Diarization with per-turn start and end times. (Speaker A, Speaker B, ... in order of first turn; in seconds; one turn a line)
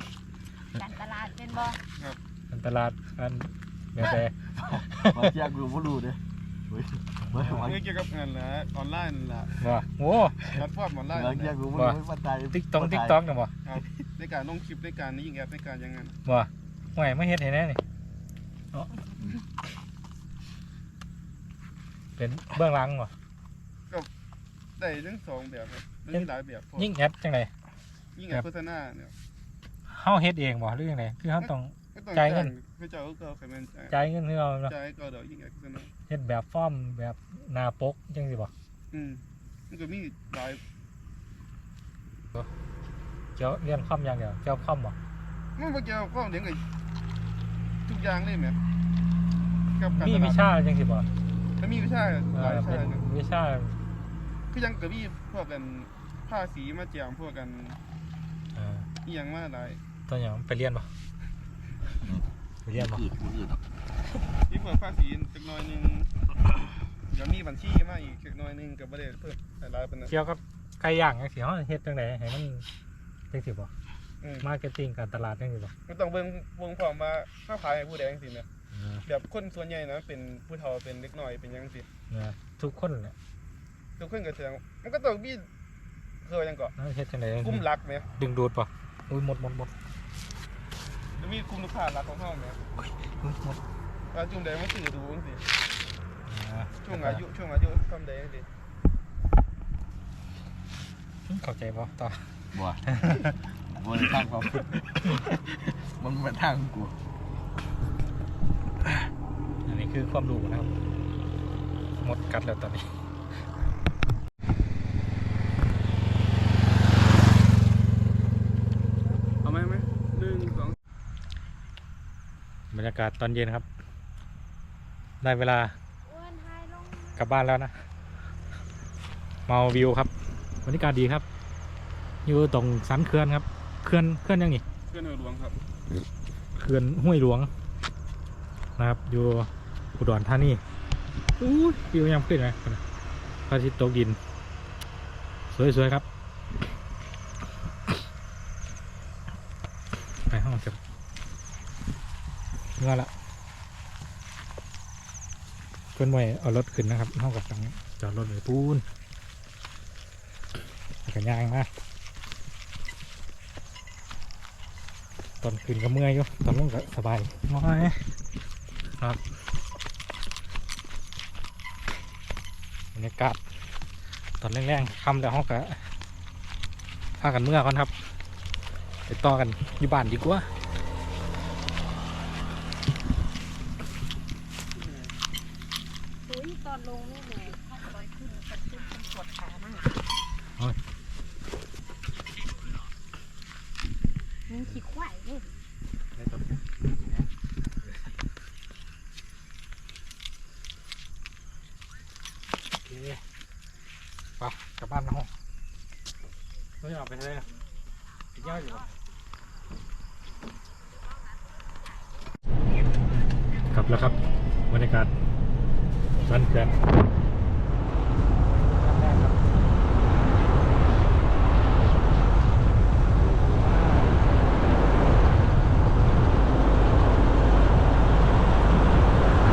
Speaker A: 0.8-1.8
Speaker B: 2.5-5.3
Speaker C: 4.6-7.8
Speaker B: 7.3-7.7
Speaker D: 7.6-9.5
Speaker B: 9.6-10.4
Speaker D: 10.4-11.6
Speaker C: 11.1-13.2
Speaker B: 11.7-13.5
Speaker D: 13.7-16.2
Speaker B: 16.2-17.8
Speaker B: 22.2-23.1
Speaker D: 24.8-26.9
Speaker B: 26.1-27.5
Speaker D: 28.2-29.1
Speaker B: 29.9-32.5
Speaker D: 31.4-34.0
Speaker B: 33.9-34.7
Speaker D: 34.7-35.9
Speaker B: 36.1-38.5
Speaker D: 38.9-40.6
Speaker B: 43.4-45.0
Speaker D: 45.6-46.6
Speaker D: 47.9-48.6
Speaker D: 49.8-50.5
Speaker B: 49.9-51.1
Speaker D: 51.6-53.1
Speaker B: 52.3-53.8
Speaker D: 54.5-57.8
Speaker B: 58.5-58.9
Speaker D: 59.0-59.8
Speaker B: 60.1-60.9
Speaker B: 62.6-63.1
Speaker C: 62.8-63.6
Speaker D: 64.5-66.1
Speaker D: 67.1-70.1
Speaker B: 70.1-72.7
Speaker B: 73.3-73.7
Speaker D: 74.2-74.5
Speaker B: 74.4-75.7
Speaker D: 75.9-78.5
Speaker B: 78.7-79.0
Speaker D: 79.0-81.9
Speaker B: 82.1-83.2
Speaker D: 84.0-85.5
Speaker D: 86.2-86.7
Speaker B: 86.8-87.6
Speaker D: 87.4-88.1
Speaker B: 88.2-89.7
Speaker D: 91.2-92.6
Speaker B: 92.8-93.6
Speaker D: 94.1-95.5
Speaker B: 96.3-97.2
Speaker D: 96.8-98.5
Speaker B: 101.3-102.3
Speaker C: 102.5-102.9
Speaker B: 102.9-103.3
Speaker C: 103.7-107.0
Speaker B: 109.7-110.7
Speaker B: 112.0-113.0
Speaker D: 119.4-120.8
Speaker B: 122.7-123.7
Speaker B: 125.2-125.8
Speaker A: 126.1-127.0
Speaker B: 127.2-127.8
Speaker B: 129.5-130.1
Speaker B: 130.6-131.2
Speaker B: 132.2-134.6
Speaker D: 134.9-135.6
Speaker B: 136.6-137.5
Speaker B: 138.8-140.6
Speaker B: 141.4-142.8
Speaker B: 143.5-144.2
Speaker B: 145.5-146.1
Speaker B: 150.3-150.8
Speaker B: 152.8-153.1
Speaker B: 155.9-158.8
Speaker B: 161.0-161.7
Speaker B: 165.4-168.1
Speaker B: 172.9-173.4
Speaker B: 174.4-175.9
Speaker B: 177.2-177.9
Speaker B: 179.1-180.5
Speaker D: 184.8-185.1
Speaker A: 186.3-190.0
Speaker A: 194.5-195.6
Speaker B: 196.2-197.3
Speaker B: 202.8-203.2
Speaker B: 204.4-205.3
Speaker B: 206.8-207.5
Speaker B: 208.3-208.9
Speaker B: 213.7-215.1
Speaker B: 216.2-216.8
Speaker B: 218.6-219.5
Speaker B: 223.5-224.4